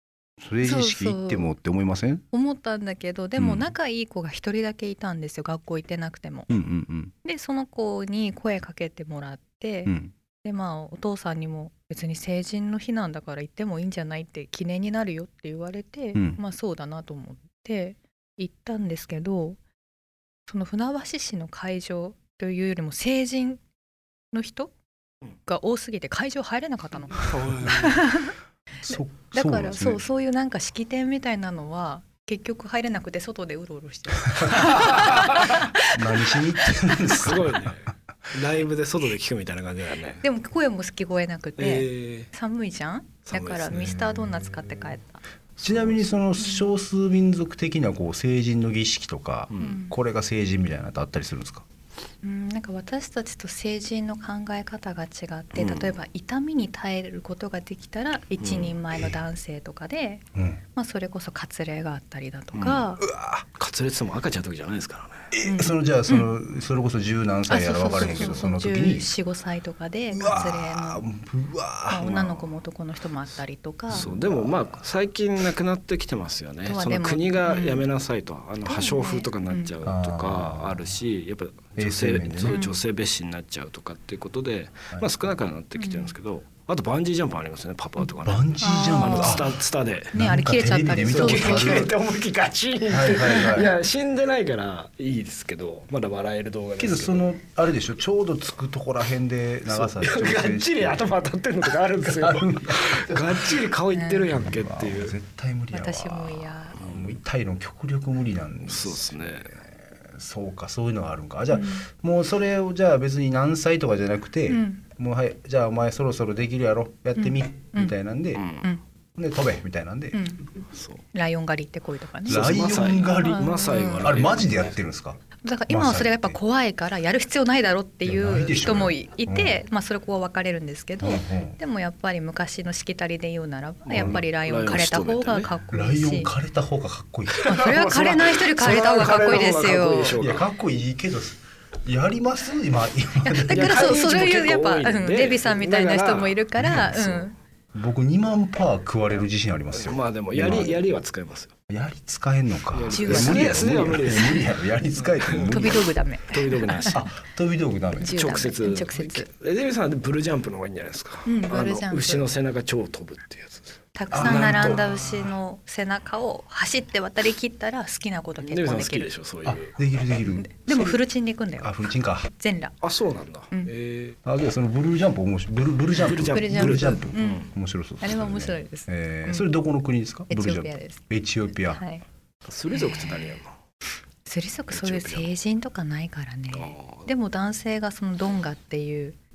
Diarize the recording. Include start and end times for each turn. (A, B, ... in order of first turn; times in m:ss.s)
0:00.4-0:02.2 A
0:00.6-0:01.5 B
0:02.3-0:06.5 B
0:03.4-0:03.7 A
0:06.5-0:07.1 A
0:07.2-0:09.9 B
0:09.8-0:10.1 A
0:10.4-0:19.6 B
0:16.2-0:16.4 A
0:20.5-0:23.6 B
0:24.3-0:24.7 B
0:25.5-0:28.3 B
0:27.1-0:28.0 C
0:28.8-0:30.0 A
0:28.9-0:36.4 B
0:35.9-0:37.6 A
0:37.1-0:40.2 C
0:40.2-0:45.2 B
0:41.6-0:42.3 C
0:43.3-0:44.0 C
0:44.2-0:44.7 A
0:45.6-0:46.0 C
0:45.6-0:51.7 A
0:46.4-0:46.7 B
0:49.5-0:49.8 C
0:49.6-0:49.9 B
0:52.2-1:03.0 B
0:55.6-0:56.0 C
0:58.4-0:58.8 C
1:00.3-1:00.6 A
1:02.5-1:02.8 C
1:03.0-1:03.4 A
1:03.6-1:05.3 C
1:05.3-1:09.1 A
1:05.4-1:06.3 B
1:07.5-1:11.0 B
1:10.1-1:12.6 A
1:11.9-1:14.1 B
1:13.9-1:30.1 C
1:13.9-1:14.8 A
1:16.6-1:17.8 B
1:18.6-1:19.8 B
1:19.8-1:20.9 A
1:21.8-1:22.6 A
1:22.5-1:22.8 B
1:24.9-1:25.3 A
1:25.8-1:26.1 B
1:28.2-1:29.6 A
1:28.6-1:29.5 B
1:30.1-1:31.9 B
1:30.1-1:31.9 A
1:31.0-1:37.4 C
1:32.9-1:33.8 A
1:36.8-1:41.1 A
1:39.7-1:45.2 C
1:42.1-1:43.4 A
1:43.9-1:44.3 B
1:44.3-1:49.2 A
1:45.7-1:46.8 B
1:46.8-1:47.2 C
1:48.7-1:49.6 C
1:49.9-1:58.4 A
1:51.5-1:51.8 B
1:54.5-1:54.8 B
1:57.2-1:58.0 B
1:58.4-1:58.7 C
1:59.2-2:00.2 A
2:00.1-2:00.5 B
2:00.7-2:01.0 C
2:01.1-2:02.4 B
2:02.3-2:04.8 C
2:02.3-2:06.4 A
2:03.2-2:04.1 B
2:05.4-2:16.3 B
2:08.0-2:09.6 A
2:11.0-2:11.6 A
2:13.9-2:14.2 A
2:14.0-2:15.5 C
2:15.7-2:17.6 A
2:17.4-2:20.4 C
2:17.5-2:20.2 B
2:20.2-2:24.0 A
2:23.2-2:27.4 B
2:23.5-2:27.2 C
2:26.6-2:26.9 A
2:27.7-2:30.9 A
2:29.7-2:31.5 C
2:31.7-2:35.9 A
2:32.7-2:37.0 C
2:32.9-2:33.6 B
2:35.5-2:36.9 B
2:36.9-2:38.2 A
2:38.0-2:39.3 B
2:38.1-2:44.8 C
2:41.2-2:42.3 B
2:44.0-2:49.1 B
2:44.1-2:45.0 A
2:48.4-2:49.8 C
2:49.7-2:51.0 A
2:50.4-2:51.7 B
2:51.6-2:52.3 A
2:52.3-2:52.8 B
2:52.8-2:54.2 C
2:54.3-3:01.8 A
2:56.0-2:57.5 C
2:56.1-2:57.5 B
2:58.0-2:59.5 B
3:00.3-3:01.0 B
3:01.7-3:02.0 B
3:02.4-3:03.5 C
3:02.7-3:03.3 B
3:04.3-3:09.2 B
3:04.7-3:05.3 C
3:06.5-3:07.1 C